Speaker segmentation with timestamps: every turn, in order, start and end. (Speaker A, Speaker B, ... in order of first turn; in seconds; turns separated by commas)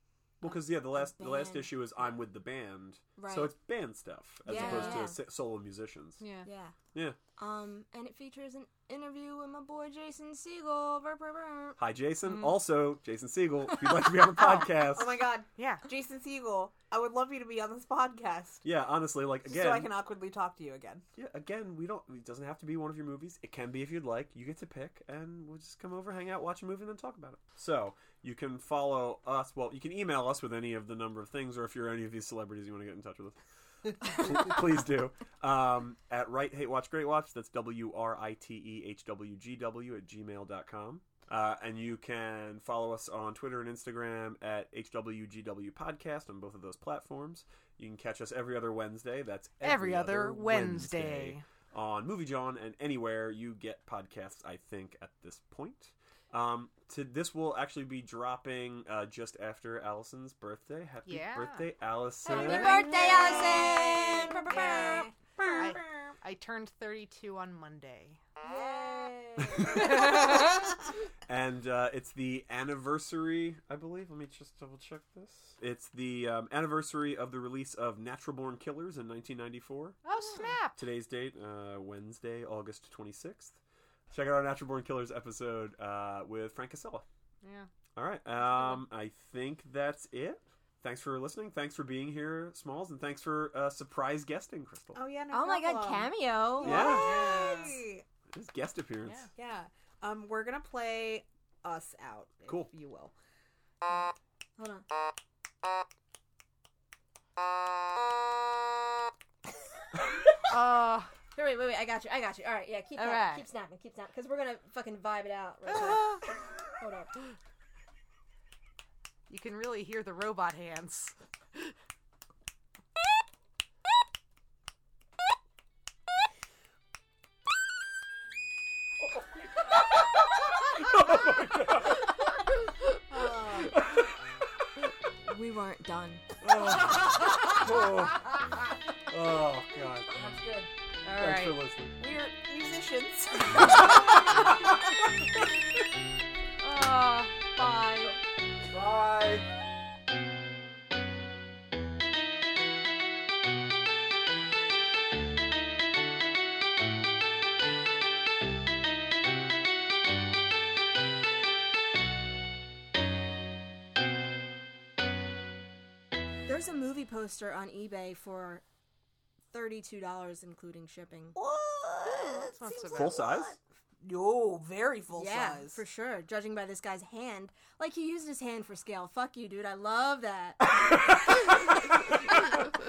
Speaker A: 0.4-6.2, Speaker B: 0.4-1.7, Speaker B: 3.2-3.5, Speaker B: 4.5-5.2, Speaker C: 4.5-5.1, Speaker C: 6.2-6.5, Speaker B: 6.5-6.8, Speaker B: 7.4-11.8, Speaker A: 11.8-15.3, Speaker C: 12.3-12.6, Speaker B: 13.7-14.1, Speaker D: 14.4-18.6, Speaker C: 15.6-15.9, Speaker A: 18.6-19.9, Speaker D: 19.5-21.1, Speaker A: 21.2-33.4, Speaker A: 33.9-62.9, Speaker C: 49.6-51.4, Speaker C: 61.1-61.7, Speaker B: 62.3-65.1, Speaker D: 62.3-66.1, Speaker C: 62.9-63.5, Speaker C: 64.5-65.0, Speaker C: 65.5-68.2, Speaker B: 68.4-70.6, Speaker D: 68.5-70.2, Speaker C: 69.7-70.5, Speaker A: 71.3-80.0, Speaker C: 80.0-80.8, Speaker A: 80.8-83.6, Speaker A: 84.1-87.0, Speaker C: 87.4-87.7, Speaker A: 88.0-95.0, Speaker C: 88.5-88.8, Speaker D: 95.0-98.0, Speaker B: 95.3-97.8, Speaker A: 96.6-97.1, Speaker A: 98.3-99.3, Speaker D: 99.3-103.1, Speaker B: 103.8-104.9, Speaker C: 110.5-111.2, Speaker B: 111.3-117.2, Speaker C: 113.0-113.5, Speaker C: 115.7-116.1, Speaker C: 119.3-121.7, Speaker A: 129.0-129.7, Speaker A: 130.8-132.1, Speaker D: 133.1-133.7, Speaker C: 133.2-133.7, Speaker A: 133.7-134.2, Speaker B: 135.2-136.2, Speaker A: 136.4-138.4, Speaker A: 139.1-140.2, Speaker D: 140.1-140.7, Speaker C: 141.0-141.6, Speaker A: 141.1-142.0, Speaker D: 142.0-144.5, Speaker C: 146.6-148.2, Speaker A: 148.7-149.5, Speaker B: 166.5-168.6, Speaker B: 169.5-171.4, Speaker D: 171.3-175.8, Speaker C: 172.5-173.2, Speaker A: 172.9-173.6, Speaker B: 175.1-180.6, Speaker A: 180.9-181.3